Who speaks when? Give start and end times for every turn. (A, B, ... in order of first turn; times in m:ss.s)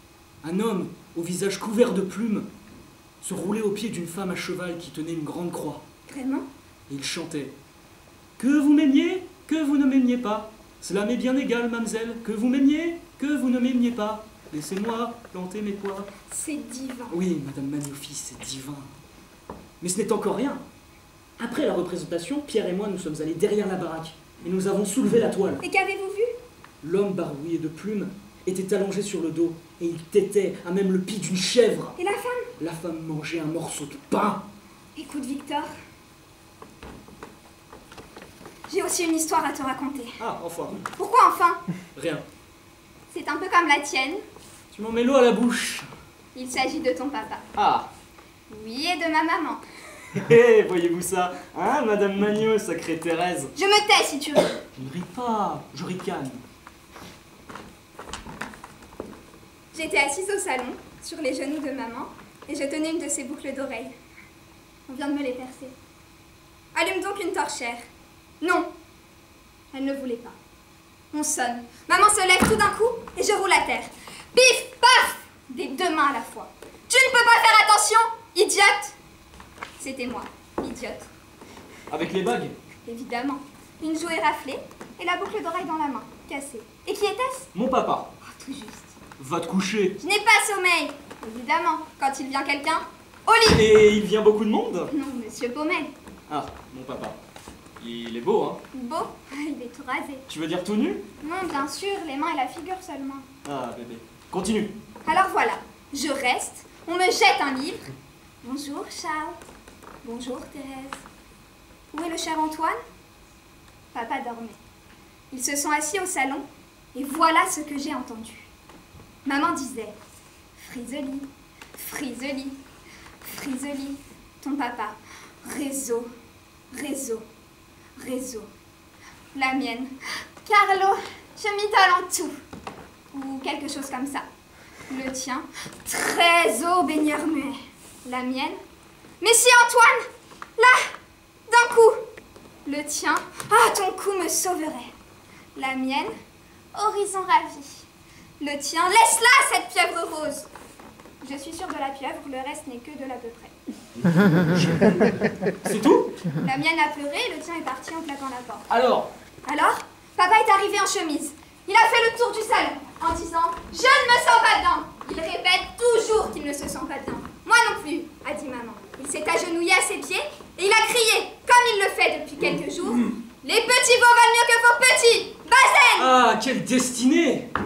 0:00.4-0:02.5 A
0:03.2-0:05.8 A
0:06.1-0:06.5 B
0:06.9-0:07.5 A
0:08.4-0:16.1 A
0:16.3-0:17.2 B
0:17.1-0:18.9 A
0:19.8-0:20.6 A
0:21.4-0:25.6 A
0:25.6-0:26.3 B
0:26.8-0:32.0 A
0:32.0-0:32.5 B
0:32.6-0:34.4 A
0:35.0-0:35.7 B
0:38.7-0:40.2 B
0:40.2-0:40.8 A
0:41.0-0:41.6 B
0:42.0-0:42.2 A
0:43.1-0:44.2 B
0:44.7-0:45.9 A
0:46.3-0:47.4 B
0:47.6-0:47.9 A
0:48.5-0:49.6 B
0:50.2-0:53.5 A
0:53.6-0:54.6 B
0:54.8-0:56.4 A
0:59.7-1:03.9 B
1:04.9-1:05.7 B
1:06.7-1:07.8 B
1:08.4-1:08.7 B
1:09.7-1:10.4 B
1:11.1-1:18.9 B
1:19.8-1:21.1 B
1:21.9-1:22.5 A
1:22.8-1:27.5 B
1:27.5-1:28.1 A
1:28.2-1:28.9 B
1:29.2-1:30.0 A
1:30.0-1:33.6 B
1:33.5-1:34.9 A
1:34.9-1:35.9 B
1:36.3-1:37.2 A
1:37.8-1:38.6 A
1:38.7-1:40.2 B
1:40.3-1:41.0 A
1:41.2-1:43.2 B
1:43.4-1:44.7 A
1:45.0-1:47.8 B
1:48.4-1:49.4 B
1:50.0-1:51.0 B
1:51.9-1:52.8 B
1:53.9-1:54.6 B
1:55.3-1:58.5 B
1:59.2-2:00.0 B
2:00.6-2:02.6 B
2:03.2-2:06.1 B
2:06.7-2:07.2 B
2:08.0-2:08.5 B
2:09.3-2:12.4 B
2:13.1-2:14.2 B
2:14.9-2:18.6 B
2:19.2-2:20.0 B
2:20.6-2:20.9 B
2:21.5-2:22.0 B
2:22.6-2:24.9 B
2:25.5-2:26.1 B
2:26.7-2:27.8 B
2:28.4-2:30.5 B
2:31.2-2:33.5 B
2:34.5-2:36.1 A
2:36.4-2:38.7 B
2:38.7-2:39.1 A
2:39.4-2:56.1 B
2:56.0-2:57.5 A